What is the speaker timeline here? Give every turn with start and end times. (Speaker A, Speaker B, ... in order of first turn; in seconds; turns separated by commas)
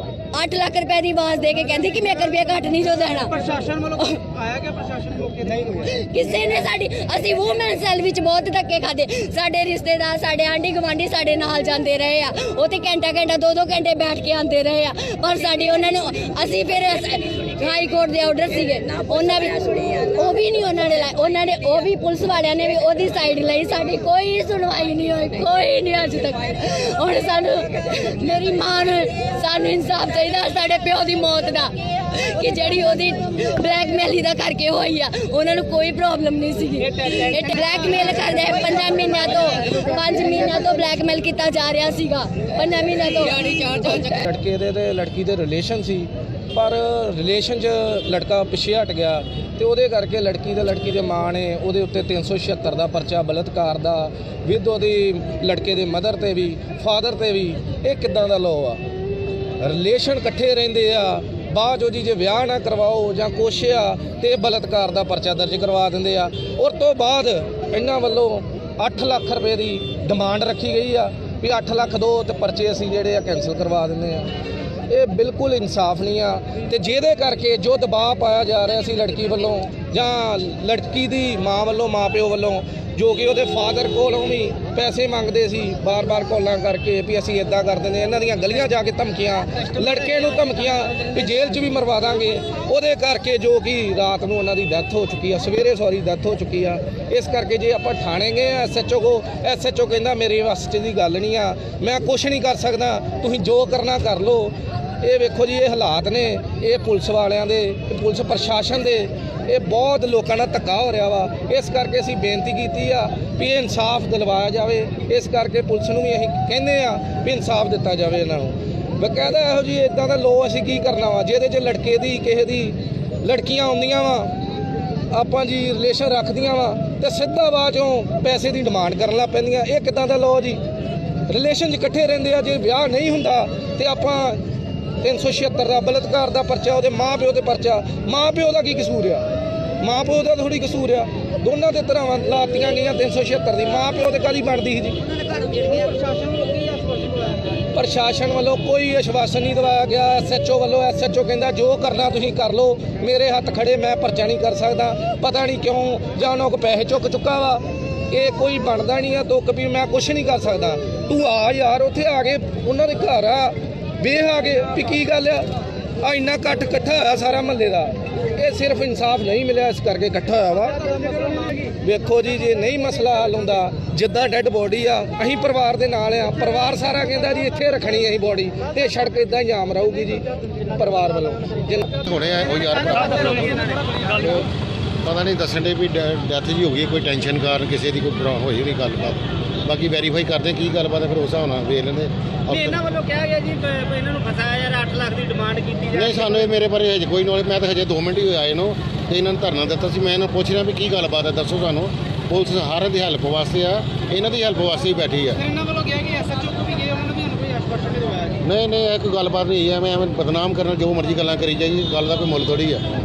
Speaker A: 0.3-3.5, Speaker B: 3.4-5.8, Speaker A: 5.8-44.2, Speaker C: 44.1-58.8, Speaker C: 59.6-74.3, Speaker C: 74.9-124.3, Speaker C: 125.1-130.6, Speaker C: 131.3-134.4, Speaker C: 135.0-139.3, Speaker C: 139.8-145.1, Speaker B: 145.2-147.5, Speaker C: 147.7-165.5, Speaker C: 166.0-171.0, Speaker C: 171.7-181.9, Speaker D: 182.0-184.5, Speaker D: 185.0-192.9, Speaker B: 192.9-195.9, Speaker D: 195.9-205.5, Speaker B: 205.5-208.3, Speaker D: 208.3-212.8